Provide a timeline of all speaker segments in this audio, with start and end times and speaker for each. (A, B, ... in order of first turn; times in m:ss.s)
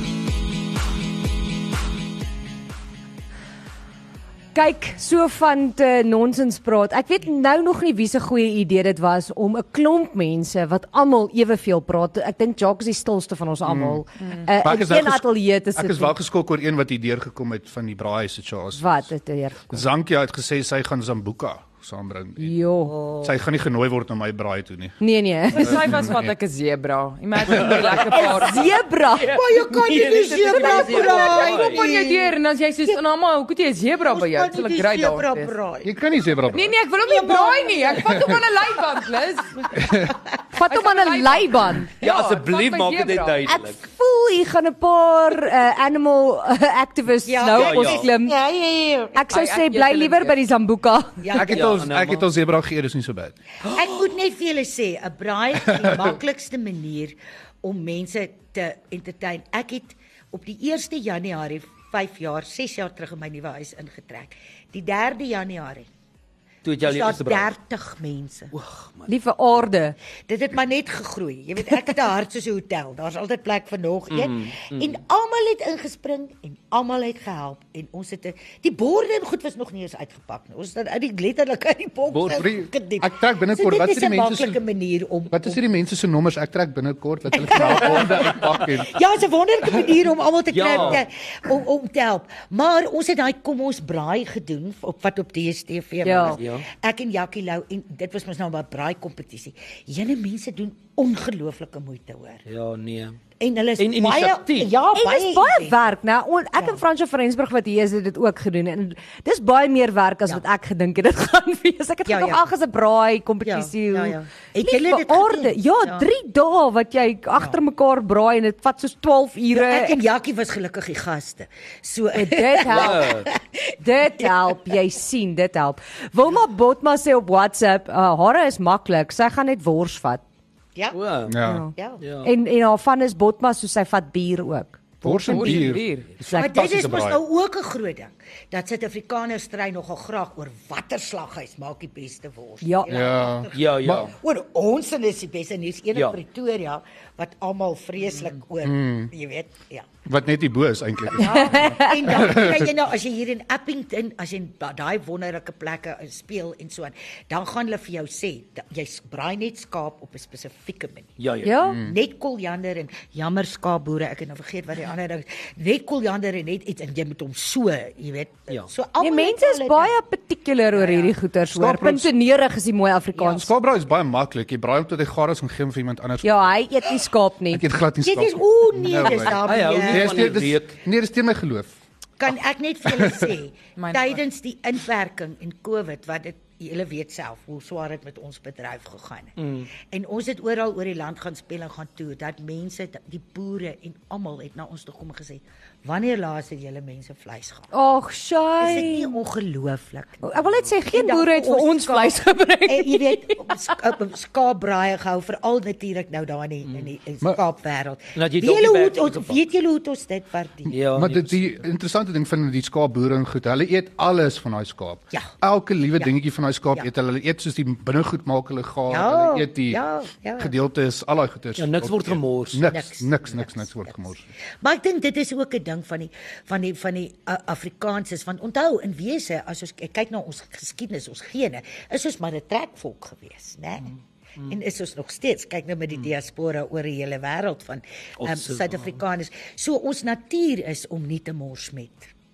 0:04.6-0:16.2 A
0:13.6-0:14.0 B
0:14.6-0:19.0 B
0:18.8-0:19.8 A
0:19.7-0:22.6 B
0:22.4-0:23.0 A
0:22.8-0:23.3 C
0:23.2-0:25.0 B
0:25.0-0:26.1 A
0:25.5-0:26.4 B
0:25.5-0:28.7 D
0:27.5-0:28.0 B
0:27.6-0:28.3 E
0:28.2-0:29.4 A
0:29.2-0:31.9 E
0:29.3-0:32.4 C
0:30.2-0:35.5 D
0:34.0-0:35.9 C
0:35.8-0:36.8 B
0:36.5-0:39.7 D
0:37.0-0:38.3 C
0:38.1-0:38.4 B
0:39.8-0:40.1 B
0:40.5-0:41.9 A
0:40.7-0:43.4 D
0:42.0-0:43.8 E
0:43.5-0:48.4 A
0:47.3-0:49.2 C
0:47.5-0:48.1 E
0:49.1-0:51.3 A
0:49.3-0:50.4 D
0:51.2-0:51.7 C
0:51.4-0:53.4 B
0:51.4-0:52.2 E
0:53.7-1:05.9 C
1:06.6-1:07.5 E
1:06.8-1:08.5 C
1:08.5-1:09.1 E
1:09.1-1:10.0 A
1:10.3-1:25.6 C
1:14.1-1:15.0 E
1:22.1-1:22.5 E
1:22.3-1:24.6 B
1:25.3-1:28.9 B
1:27.3-1:42.4 C
1:30.5-1:31.0 E
1:36.0-1:36.4 A
1:36.4-1:36.6 E
1:42.5-1:43.2 E
1:43.4-1:45.8 C
1:43.8-1:44.7 E
1:44.9-2:00.0 A
1:52.1-1:52.4 C
1:53.4-1:56.1 C
1:59.5-2:03.4 C
2:02.1-2:03.1 A
2:02.7-2:03.3 E
2:03.8-2:10.2 A
2:10.9-2:11.4 E
2:11.3-2:11.7 B
2:11.4-2:16.6 A
2:11.7-2:12.0 C
2:12.0-2:12.3 E
2:15.0-2:17.2 B
2:15.3-2:16.1 D
2:16.3-2:29.9 C
2:22.6-2:22.9 A
2:22.9-2:24.1 B
2:23.5-2:24.1 E
2:28.6-2:29.1 B
2:30.1-2:32.7 B
2:31.2-2:41.1 C
2:31.2-2:32.2 A
2:41.2-2:41.6 E
2:41.4-2:41.8 A
2:41.6-2:42.0 B
2:41.7-2:49.9 C
2:49.0-2:53.5 A
2:50.7-2:51.1 C
2:51.5-2:52.1 B
2:53.2-2:56.5 B
2:56.2-2:57.6 A
2:57.5-3:01.8 B
2:58.0-3:00.4 C
2:59.0-3:00.8 E
3:02.2-3:17.7 C
3:03.0-3:03.3 B
3:03.8-3:04.2 D
3:09.4-3:09.7 E
3:17.7-3:19.2 A
3:18.6-3:30.7 C
3:20.2-3:23.6 A
3:28.2-3:29.4 E
3:30.7-3:31.6 E
3:30.7-3:39.8 B
3:38.9-3:40.5 C
3:40.4-3:44.3 B
3:41.6-3:42.7 E
3:42.7-3:44.1 C
3:44.6-4:02.1 C
3:58.2-3:59.0 E